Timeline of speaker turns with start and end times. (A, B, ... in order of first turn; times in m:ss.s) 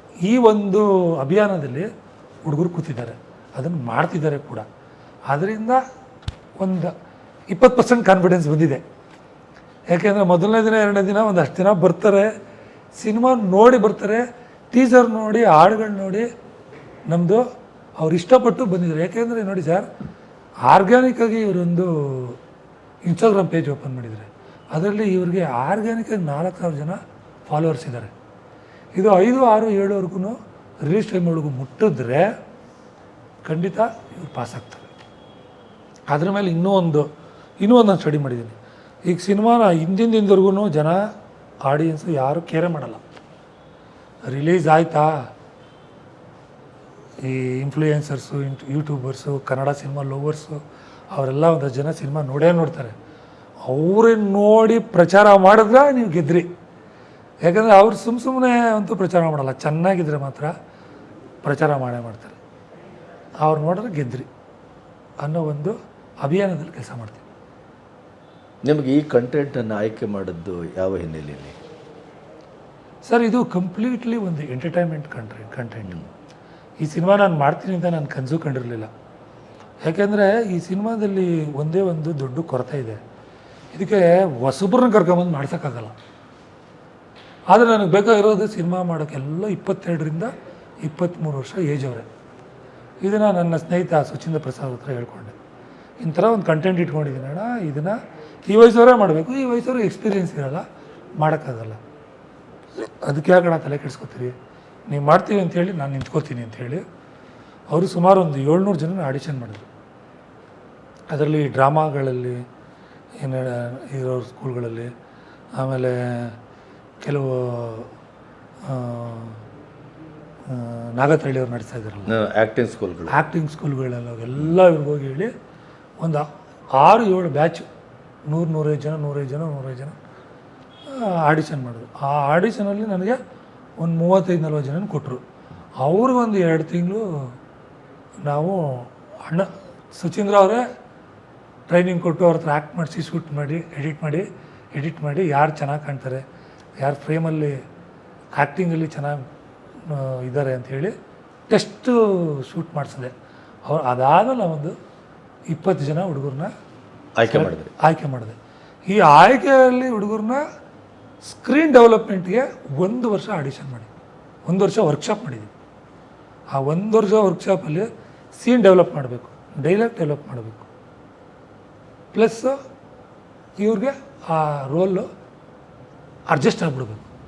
0:00.2-0:01.9 A
0:02.4-0:04.6 A
0:05.3-0:05.8 A
0:06.6-0:06.9 A
0:07.5-0:08.8 A
0:09.9-0:12.3 A
0:12.9-0:16.3 A
0:17.1-0:17.4 A
0:18.0-0:19.9 A
0:20.6-0:22.4 A
0:23.0-0:28.1 A
0:28.9-0:32.3 A
0:33.4-0:34.9 A
0:36.1-0:37.1 A
0:37.6-0:41.1 A
0:41.6-0:43.0 A
0:44.2-0:45.3 A
0:47.2-0:50.6 A
0:51.1-0:52.9 A
0:53.6-0:56.5 A
0:57.4-1:00.5 A
1:01.4-1:02.4 A
1:03.4-1:04.3 A
1:05.2-1:07.2 A
1:08.6-1:11.6 B
1:13.0-1:16.0 A
1:16.8-1:18.9 A
1:19.8-1:23.0 A
1:23.7-1:26.0 A
1:27.5-1:30.3 A
1:30.8-1:32.1 A
1:33.0-1:35.3 A
1:36.0-1:40.6 A
1:41.2-1:41.8 A
1:42.8-1:44.3 A
1:44.9-1:46.8 A
1:47.7-1:49.7 A
1:51.1-1:52.4 A
1:53.2-1:54.9 A
1:55.5-1:56.4 A
1:57.0-1:57.9 A
1:58.6-1:59.4 A
2:00.5-2:02.1 A
2:02.1-2:03.2 B
2:03.1-2:05.3 A
2:06.0-2:07.7 A
2:08.3-2:10.0 A
2:10.9-2:13.2 A
2:13.8-2:15.2 A
2:15.8-2:17.3 A
2:18.2-2:20.6 A
2:21.7-2:26.2 A
2:26.8-2:27.6 A
2:28.4-2:29.2 A
2:29.8-2:30.9 A
2:31.5-2:33.1 A
2:33.6-2:34.7 A
2:35.5-2:36.5 A
2:37.2-2:37.7 B
2:37.3-2:38.4 A
2:38.9-2:40.4 A
2:41.2-2:43.9 A
2:44.4-2:45.5 A
2:46.5-2:50.7 A
2:52.1-2:52.6 A
2:53.6-2:55.1 A
2:56.3-2:57.1 A